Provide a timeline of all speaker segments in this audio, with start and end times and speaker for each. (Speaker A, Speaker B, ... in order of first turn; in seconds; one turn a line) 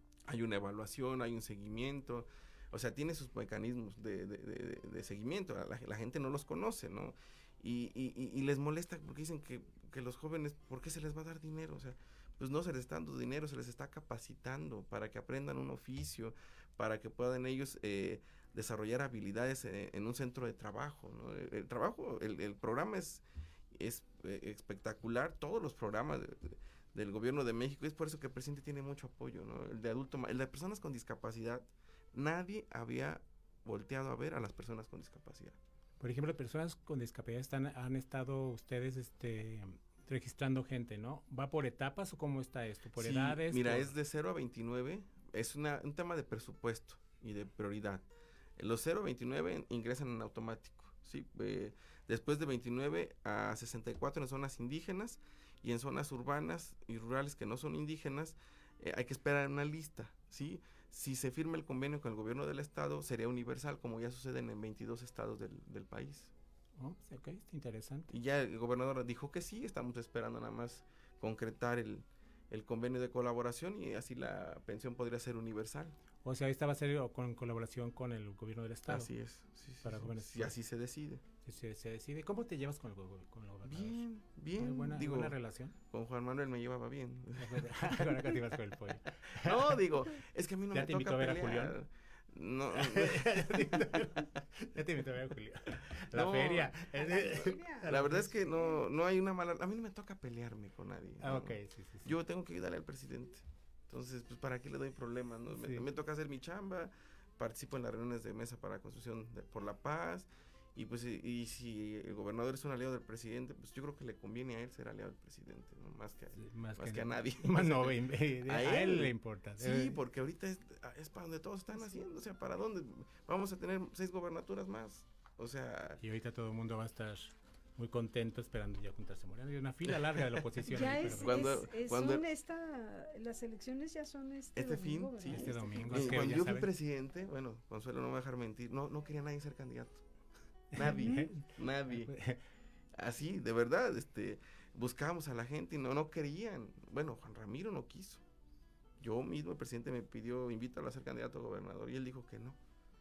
Speaker A: 0.3-35.6
Speaker B: 36.0-43.9
Speaker A: 42.9-48.0
Speaker A: 48.6-66.3
Speaker B: 66.8-68.1
Speaker A: 68.1-76.0
Speaker B: 76.2-79.1
Speaker A: 78.9-81.2
Speaker B: 79.8-80.6
Speaker B: 81.5-85.8
Speaker A: 83.7-85.4
Speaker A: 85.9-88.0
Speaker B: 87.4-89.8
Speaker A: 89.4-93.9
Speaker B: 90.7-91.8
Speaker B: 92.7-98.4
Speaker A: 96.1-96.9
Speaker C: 97.0-97.9
Speaker A: 97.8-126.0
Speaker B: 101.2-102.2
Speaker B: 105.5-105.9
Speaker B: 116.4-120.0
Speaker B: 126.0-131.7
Speaker A: 129.9-132.2
Speaker C: 130.7-136.3
Speaker A: 134.6-140.0
Speaker B: 135.2-136.7
Speaker B: 140.7-142.4
Speaker A: 140.8-142.1
Speaker A: 143.0-148.2
Speaker A: 149.0-152.6